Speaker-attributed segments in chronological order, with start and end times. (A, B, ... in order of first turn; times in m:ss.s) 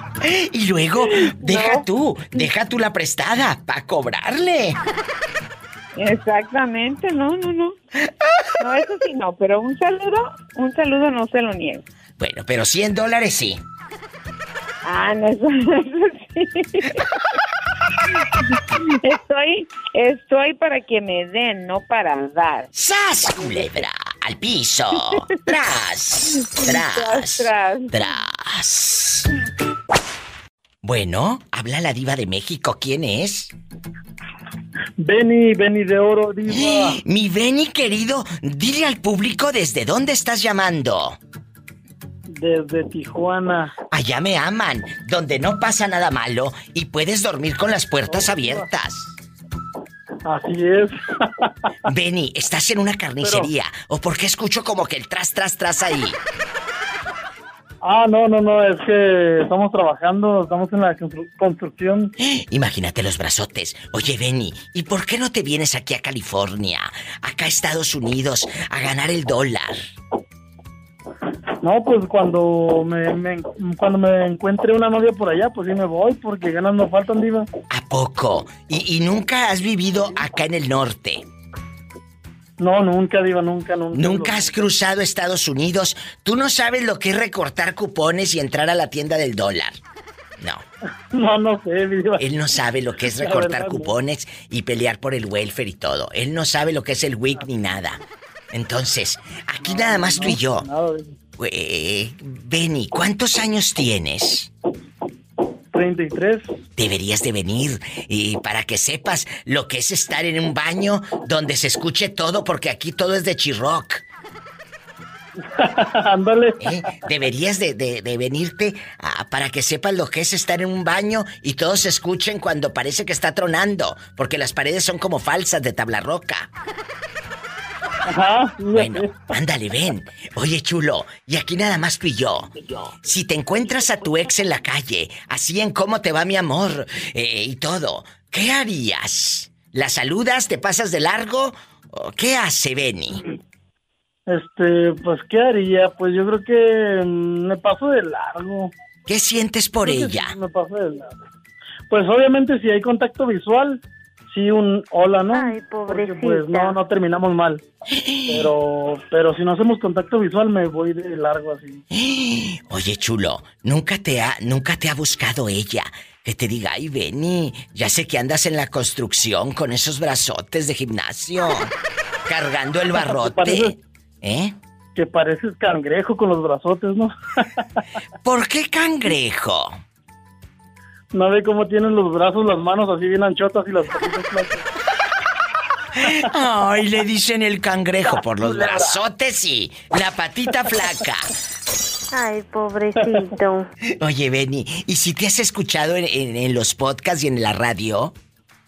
0:00.2-0:04.8 A
0:01.2-0:01.8 B
0:06.0-0:07.8 B
0:08.6-0:11.8 B
0:12.2-0:13.6 A
0:14.8-0:17.0 B
0:18.5-0:22.7 B
0:22.7-0:29.3 A
0:23.4-0:23.8 B
0:26.4-0:28.1 B
0:30.8-0:33.5 A
0:35.0-0:37.0 C
0:36.5-0:41.2 A
0:42.3-0:43.7 C
0:43.9-0:49.2 A
0:48.1-0:48.7 C
0:50.2-0:51.5 C
0:51.9-0:56.2 A
0:53.2-0:53.5 C
0:57.8-1:02.1 C
1:02.2-1:09.8 A
1:11.6-1:17.5 C
1:17.7-1:21.2 A
1:22.6-1:24.6 C
1:23.9-1:29.8 A
1:30.4-1:30.6 A
1:31.1-1:32.2 C
1:32.2-1:40.7 A
1:33.1-1:33.9 C
1:39.6-1:41.2 C
1:41.4-1:44.5 A
1:45.7-1:46.6 C
1:46.8-1:54.0 A
1:55.5-1:56.7 C
1:56.6-2:06.5 A
2:08.1-2:09.3 C
2:08.8-2:23.2 A
2:24.3-2:28.7 C
2:29.1-2:30.3 A
2:29.8-2:31.1 C
2:31.9-2:37.6 C
2:35.3-2:36.8 D
2:37.9-2:38.5 A
2:38.3-2:41.8 C
2:41.9-2:51.7 A
2:52.3-2:54.6 A
2:53.0-2:53.7 C
2:55.0-2:57.1 C
2:58.2-2:59.8 A
3:01.1-3:04.6 C
3:06.0-3:11.3 A
3:08.4-3:09.0 C
3:12.1-3:13.7 D
3:13.0-3:13.3 C
3:14.0-3:18.1 A